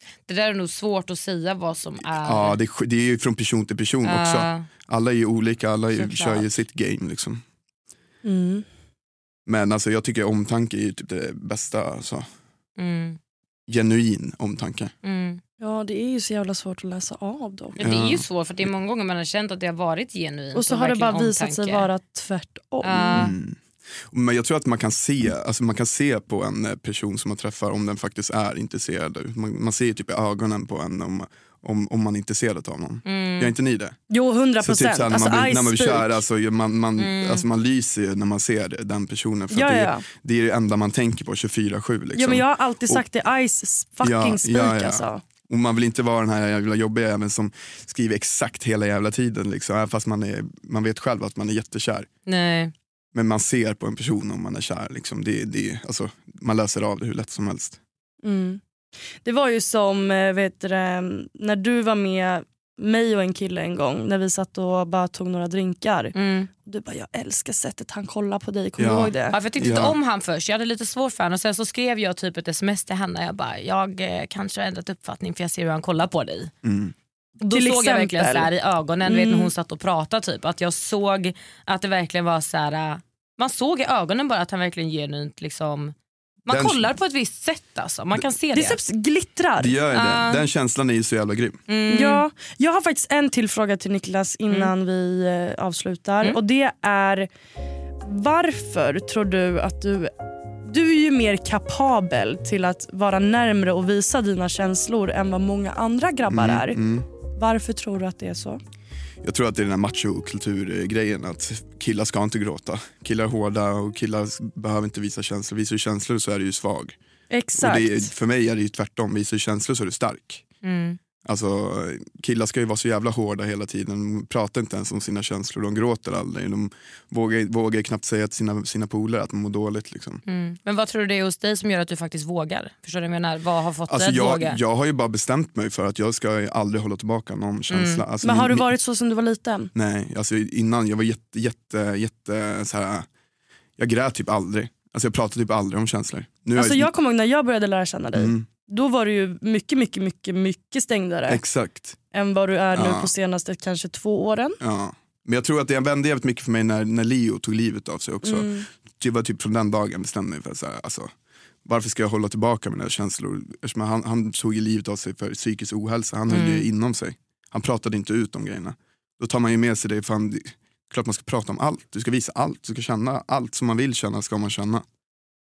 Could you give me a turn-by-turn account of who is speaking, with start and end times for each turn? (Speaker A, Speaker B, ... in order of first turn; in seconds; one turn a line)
Speaker A: 0.3-2.6
Speaker B: 2.2-7.4
Speaker A: 4.0-4.7
Speaker A: 5.9-6.5
Speaker C: 8.2-8.7
Speaker B: 9.4-12.2
Speaker A: 12.8-13.2
Speaker B: 13.7-14.9
Speaker A: 15.0-15.4
Speaker C: 15.6-17.8
Speaker B: 17.8-18.7
Speaker A: 17.8-21.9
Speaker C: 20.5-23.3
Speaker A: 22.8-23.3
Speaker B: 23.1-23.6
Speaker B: 24.1-34.0
Speaker A: 33.0-33.5
Speaker C: 34.1-36.2
Speaker B: 34.6-43.0
Speaker A: 37.0-37.4
Speaker C: 39.5-40.0
Speaker C: 42.1-45.2
Speaker B: 44.0-52.1
Speaker A: 52.2-52.7
Speaker B: 53.1-57.8
Speaker C: 58.2-58.6
Speaker C: 59.2-69.3
Speaker A: 66.1-66.5
Speaker B: 68.8-70.0
Speaker A: 69.3-76.5
Speaker B: 76.6-76.9
Speaker A: 77.4-85.9
Speaker C: 77.5-78.5
Speaker C: 79.0-79.5
Speaker A: 86.5-88.8
Speaker B: 86.5-86.9
Speaker C: 88.5-89.8
Speaker B: 89.6-91.6
Speaker A: 89.9-90.5
Speaker A: 91.7-92.2
Speaker C: 91.9-97.3
Speaker C: 98.0-100.1
Speaker C: 100.6-106.8
Speaker B: 106.3-107.0
Speaker C: 107.3-108.6
Speaker B: 109.2-117.0
Speaker C: 117.3-118.1
Speaker B: 117.5-120.4
Speaker A: 120.6-121.0
Speaker B: 121.2-130.2
Speaker A: 130.2-134.6
Speaker B: 133.9-138.7
Speaker A: 137.7-138.0
Speaker C: 138.2-139.7
Speaker B: 139.7-143.1
Speaker B: 143.8-146.9
Speaker C: 146.5-151.4
Speaker B: 148.1-148.5
Speaker B: 151.3-152.0
Speaker C: 152.1-154.6
Speaker B: 152.7-153.1
Speaker B: 154.6-161.1
Speaker C: 158.2-158.7
Speaker B: 161.6-174.8
Speaker A: 166.3-166.7